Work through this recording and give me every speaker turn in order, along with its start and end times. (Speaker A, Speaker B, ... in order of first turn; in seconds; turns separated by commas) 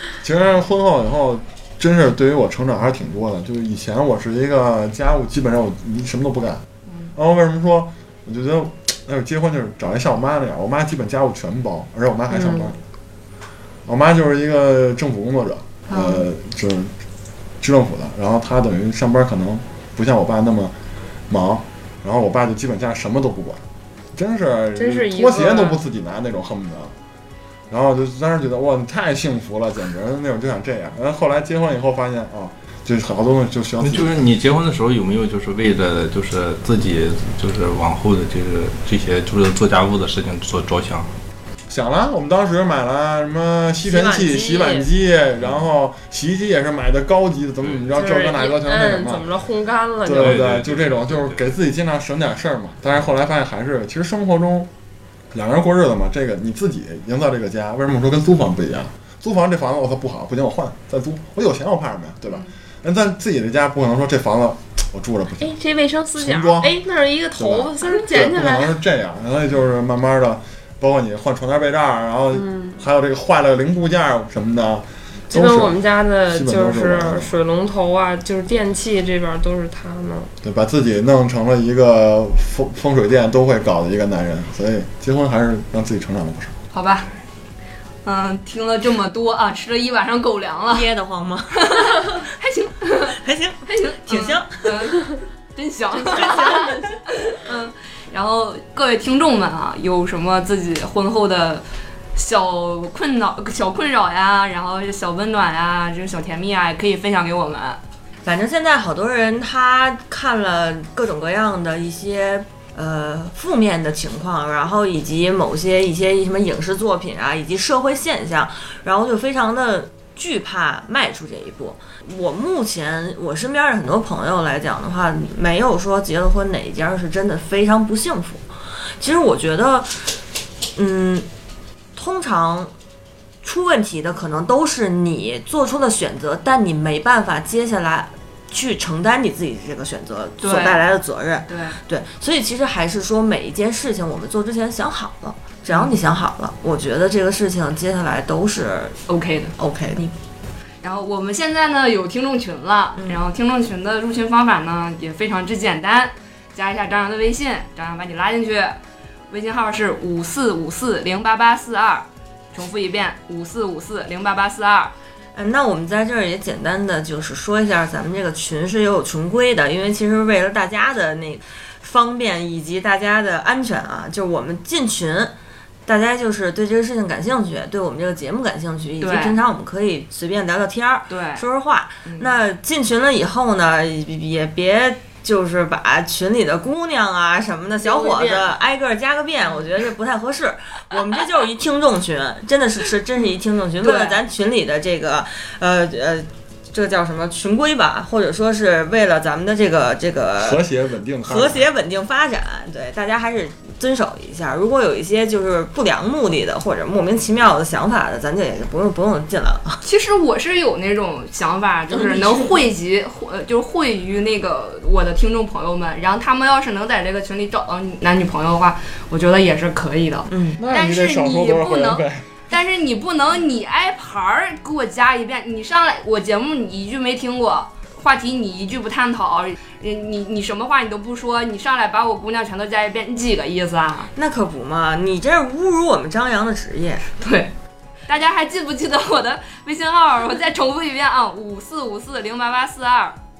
Speaker A: 0.2-6.6, Speaker A: 7.1-12.8, Speaker B: 12.3-12.7, Speaker A: 13.8-16.9, Speaker C: 15.9-16.2, Speaker A: 17.6-20.7, Speaker A: 21.3-23.6, Speaker A: 24.1-26.9, Speaker B: 24.8-25.8, Speaker A: 27.7-34.2, Speaker D: 33.8-41.1, Speaker A: 41.7-49.3, Speaker B: 43.8-44.9, Speaker D: 45.4-45.6, Speaker B: 47.9-50.4, Speaker A: 50.0-54.7, Speaker D: 50.2-51.5, Speaker A: 55.3-65.6, Speaker B: 65.4-68.8, Speaker A: 66.1-66.8, Speaker A: 67.4-77.3, Speaker B: 72.3-72.8, Speaker B: 75.3-80.3, Speaker A: 80.4-86.5, Speaker C: 86.7-87.1, Speaker C: 88.0-90.9, Speaker E: 90.7-92.1, Speaker C: 91.5-101.6, Speaker E: 93.2-95.0, Speaker E: 96.1-96.8, Speaker C: 102.1-107.8, Speaker E: 108.2-128.5, Speaker E: 129.0-130.2, Speaker E: 130.7-131.3, Speaker E: 131.9-132.7, Speaker E: 133.4-149.0, Speaker C: 140.4-140.8, Speaker C: 141.5-141.8, Speaker C: 145.7-145.9, Speaker C: 149.1-149.6, Speaker E: 149.6-150.1, Speaker C: 150.8-158.8, Speaker C: 159.3-164.9, Speaker E: 165.3-175.3, Speaker E: 175.8-200.6, Speaker C: 179.0-179.4, Speaker C: 181.1-181.4, Speaker C: 182.1-182.3, Speaker B: 187.8-188.6, Speaker C: 193.8-194.2, Speaker A: 200.4-201.7, Speaker E: 201.2-209.8, Speaker C: 209.8-234.1, Speaker E: 220.3-220.6, Speaker A: 220.6-222.4, Speaker E: 234.1-237.1, Speaker C: 237.2-237.5, Speaker C: 238.1-243.2